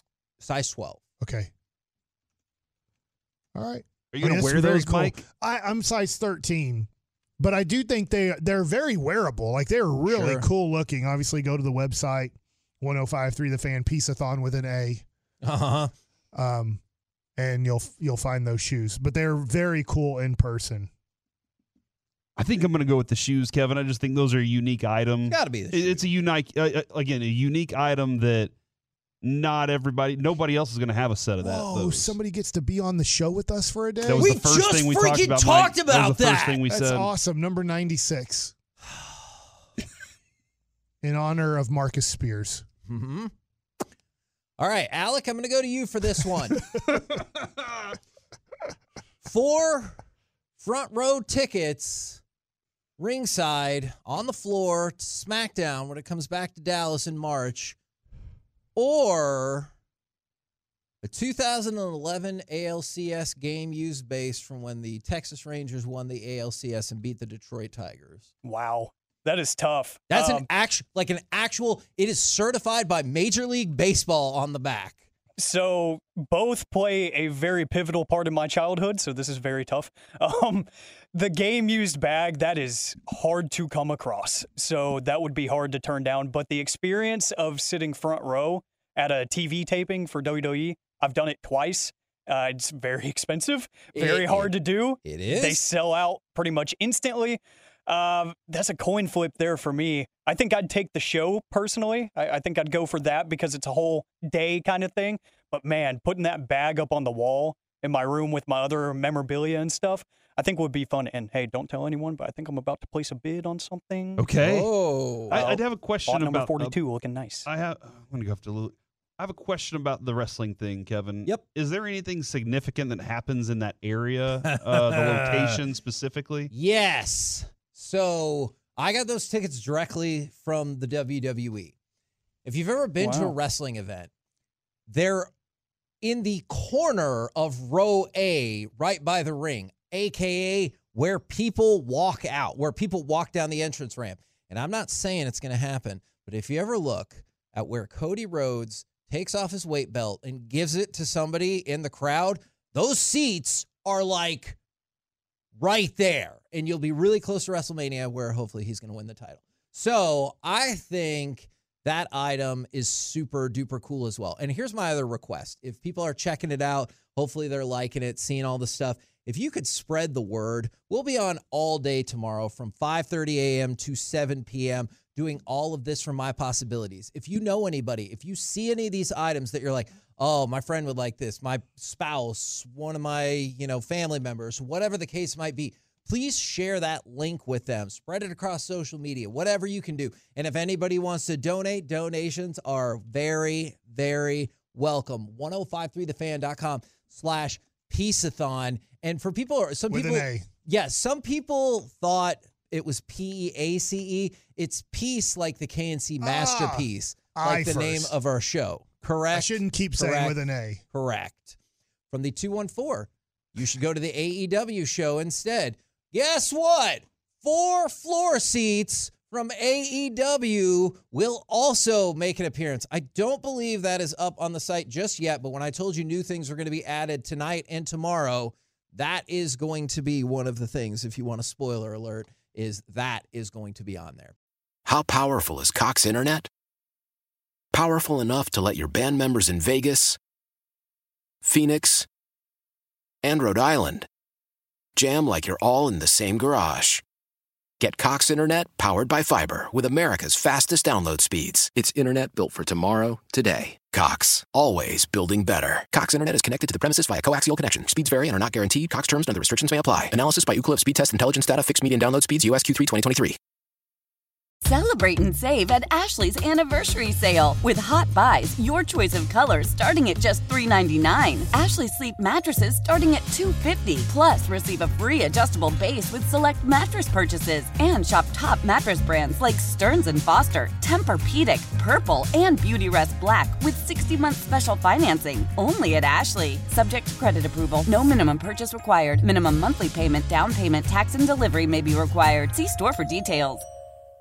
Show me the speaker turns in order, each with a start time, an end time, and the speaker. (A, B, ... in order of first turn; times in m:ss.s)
0:00.4-0:01.0 A
0:01.2-0:01.5 B
0:03.5-0:06.9 B
0:04.1-0:05.2 C
0:07.4-0:15.0 B
0:10.0-0:10.4 A
0:15.4-0:15.9 A
0:16.3-0:16.8 B
0:17.4-0:20.9 B
0:22.4-0:28.5 C
0:25.2-0:26.0 A
0:29.2-0:32.2 C
0:31.4-0:34.3 B
0:34.0-0:37.1 C
0:34.2-0:36.6 A
0:36.7-0:38.5 B
0:38.9-0:39.3 A
0:41.0-0:42.6 B
0:42.9-0:43.3 A
0:44.6-0:46.6 A
0:49.2-0:50.0 A
0:50.6-0:52.2 A
0:53.0-0:57.8 A
0:58.7-0:59.7 A
1:01.0-1:08.3 A
1:08.4-1:10.5 D
1:10.1-1:15.0 A
1:15.4-1:54.3 D
1:33.9-1:35.6 A
1:54.2-1:56.8 C
1:54.4-1:55.4 A
1:55.3-1:57.5 D
1:57.4-2:06.5 C
2:04.5-2:05.4 A
2:06.5-2:11.7 A
2:12.4-2:14.1 A
2:13.0-2:13.3 D
2:14.9-2:15.3 A
2:16.0-2:34.6 A
2:35.6-3:31.6 A
3:19.9-3:20.5 B
3:26.2-3:28.1 B
3:29.3-3:30.8 B
3:32.1-3:54.3 A
3:54.9-3:56.5 E
3:57.8-4:00.2 E
4:01.5-4:02.1 E
4:03.2-4:04.1 E
4:05.0-4:07.0 E
4:07.8-4:23.4 E
4:24.6-4:53.6 F